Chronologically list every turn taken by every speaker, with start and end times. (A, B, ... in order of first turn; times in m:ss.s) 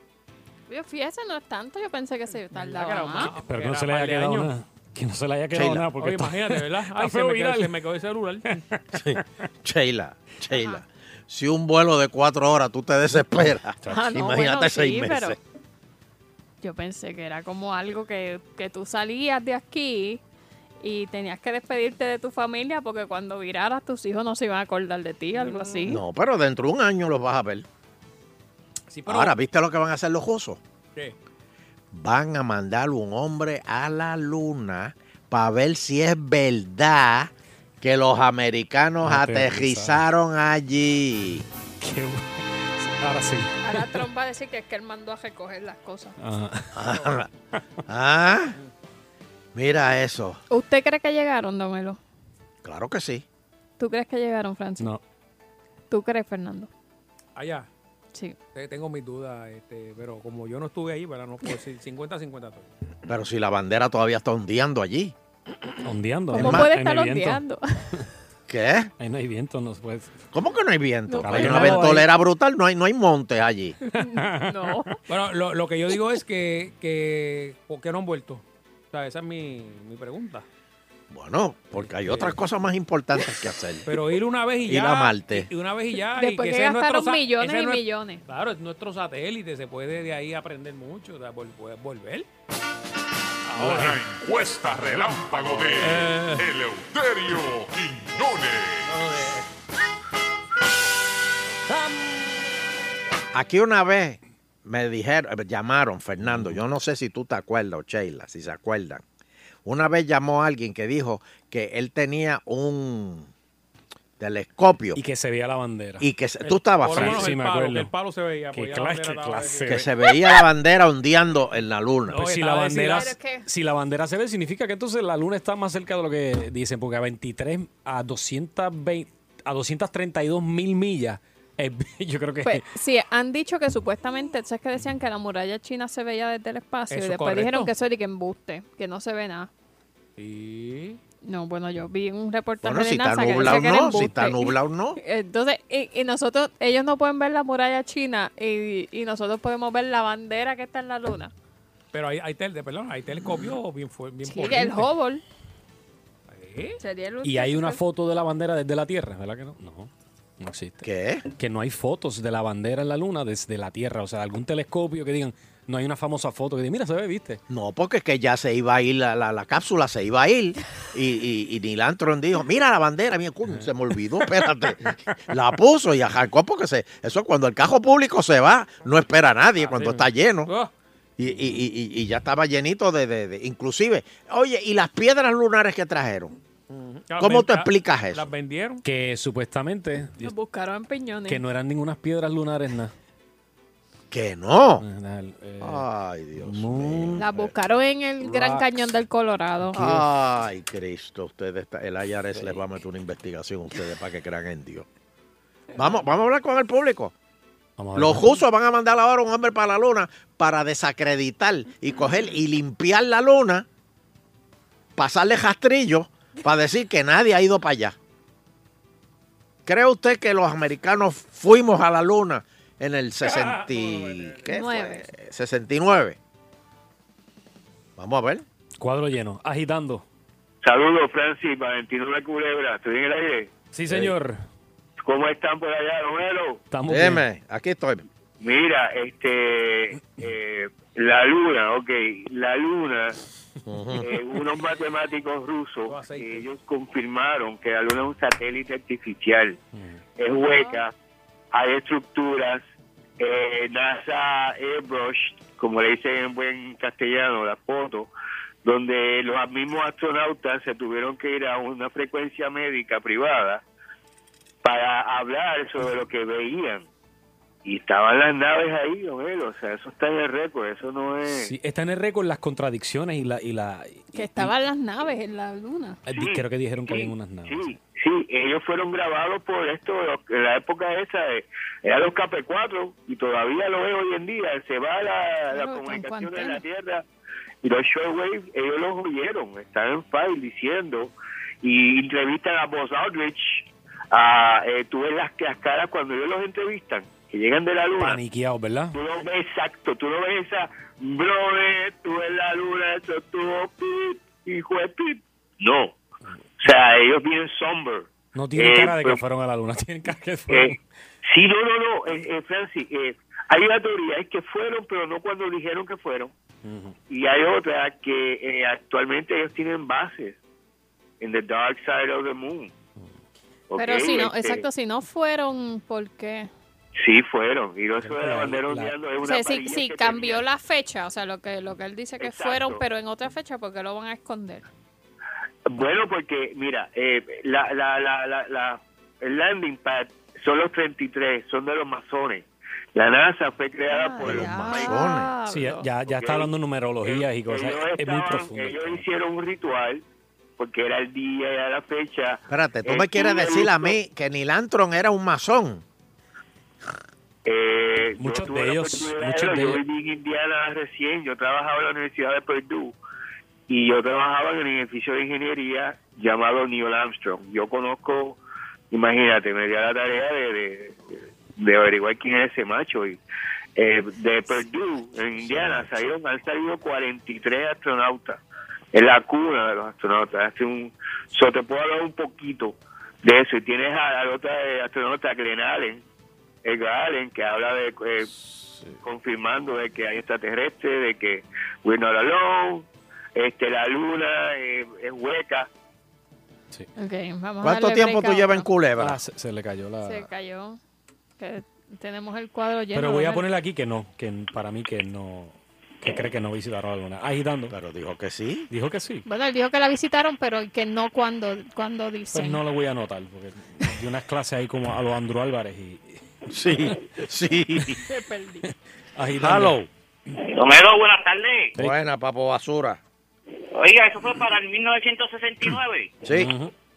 0:00.7-0:03.3 A
0:02.5-0:04.5 B
0:03.2-0:07.7 C
0:05.5-0:05.9 D
0:06.0-0:08.6 B
0:08.9-0:15.4 D
0:10.5-0:10.8 A
0:13.8-0:14.2 C
0:13.9-0:15.4 A
0:16.6-0:20.2 A
0:20.8-0:26.0 A
0:25.3-0:25.9 B
0:25.9-0:27.6 D
0:28.9-0:29.3 B
0:29.0-0:30.6 D
0:31.9-0:41.4 D
0:39.0-0:40.0 C
0:41.8-0:44.0 C
0:43.6-0:46.2 A
0:46.2-0:46.8 C
0:46.7-0:47.3 D
0:47.9-0:48.6 D
0:49.5-0:50.4 D
0:50.5-0:52.0 A
0:52.6-0:53.2 D
0:53.8-0:54.9 A
0:55.9-0:56.7 A
0:57.4-0:57.7 B
0:58.5-1:02.7 B
1:03.1-1:05.1 D
1:05.8-1:07.4 C
1:06.3-1:07.8 A
1:06.3-1:06.7 D
1:08.5-1:08.9 D
1:09.0-1:10.2 C
1:10.3-1:13.8 D
1:11.1-1:12.0 A
1:11.2-1:12.1 C
1:13.8-1:15.0 A
1:14.0-1:14.7 C
1:15.1-1:20.4 B
1:21.1-1:23.9 D
1:21.9-1:22.4 B
1:23.8-1:32.3 B
1:24.6-1:25.5 D
1:26.1-1:28.2 A
1:33.4-1:36.5 B
1:33.6-1:38.9 E
1:38.8-1:39.5 B
1:43.3-1:49.0 D
1:46.2-1:46.6 C
1:49.6-1:53.3 D
1:54.2-1:55.0 D
1:54.9-1:56.0 C
1:56.0-1:57.3 D
1:56.4-1:59.8 B
1:56.8-1:57.9 C
1:58.5-1:59.9 C
1:59.7-2:02.2 D
2:02.1-2:03.1 B
2:02.1-2:12.7 C
2:02.9-2:03.4 A
2:12.4-2:19.5 A
2:16.9-2:17.7 B
2:20.2-2:21.0 B
2:21.2-2:31.3 A
2:22.6-2:25.0 D
2:31.9-2:34.9 B
2:34.2-2:35.2 A
2:36.3-2:36.8 B
2:36.8-2:37.8 A
2:37.2-2:47.4 C
2:40.8-2:41.2 D
2:47.5-3:00.5 D
2:59.6-3:00.7 B
3:01.2-3:06.4 D
3:06.7-3:08.8 B
3:07.2-3:08.3 D
3:08.8-3:10.3 C
3:10.2-3:11.4 A
3:11.3-3:12.9 C
3:14.1-3:14.8 D
3:14.8-3:15.8 C
3:15.6-3:17.5 D
3:16.4-3:17.3 C
3:17.2-3:20.0 A
3:18.2-3:18.7 C
3:19.7-3:24.8 D
3:25.7-3:27.1 D
3:27.8-3:28.4 C
3:27.9-3:33.6 D
3:35.0-3:38.0 D
3:39.6-3:46.2 D
3:43.2-3:44.5 B
3:44.5-3:45.1 A
3:48.0-3:48.4 D
3:48.8-3:50.0 C
3:50.6-3:53.5 F
3:53.7-3:54.4 C
3:55.0-3:56.6 F
3:56.7-3:57.2 C
3:56.9-3:58.0 D
3:58.4-4:03.2 F
4:03.6-4:04.0 D
4:04.0-4:09.6 F
4:05.9-4:06.5 B
4:10.2-4:10.9 F
4:10.5-4:10.8 A
4:11.5-4:12.6 F
4:13.2-4:18.1 F
4:18.6-4:23.6 F
4:24.6-4:26.9 F
4:27.6-4:31.5 F
4:31.3-4:34.5 C
4:34.1-4:36.0 A
4:36.0-4:37.8 C
4:36.1-4:47.0 F
4:45.5-4:46.6 A
4:47.6-4:58.2 F
4:58.0-4:59.0 C
4:58.9-5:06.0 F
5:06.6-5:09.2 F
5:08.3-5:10.8 C
5:10.5-5:16.3 F
5:16.6-5:16.9 C
5:17.1-5:20.4 F
5:21.2-5:22.7 F
5:23.7-5:24.6 F
5:23.8-5:26.5 A
5:27.0-5:30.4 F
5:28.0-5:29.1 C
5:29.2-5:34.7 A
5:32.2-5:32.8 F
5:35.7-5:45.0 F
5:43.9-5:45.9 A
5:44.2-5:45.3 D
5:45.5-5:49.0 C
5:46.0-5:46.5 F
5:47.0-5:50.0 F
5:50.6-5:54.0 F
5:52.5-5:55.8 D
5:57.4-6:03.0 F
5:58.2-5:59.8 C
6:03.7-6:08.4 F
6:08.9-6:13.2 F
6:13.8-6:18.4 F
6:15.4-6:15.9 D
6:18.9-6:26.0 F
6:26.6-6:28.3 F
6:29.0-6:35.7 F
6:37.0-6:38.7 A
6:37.6-6:39.2 D
6:39.0-6:40.3 C
6:40.0-6:40.8 A
6:41.4-6:43.4 A
6:42.9-6:47.7 C
6:47.7-6:48.7 D
6:48.7-6:49.2 C
6:49.2-6:52.6 A
6:52.3-6:56.2 C
6:56.5-6:58.0 D
6:58.0-6:58.6 A
6:59.2-6:59.8 C
6:59.4-6:59.9 D
7:00.3-7:01.8 G
7:01.8-7:03.0 D
7:03.7-7:06.2 G
7:06.2-7:06.5 D
7:06.3-7:06.7 C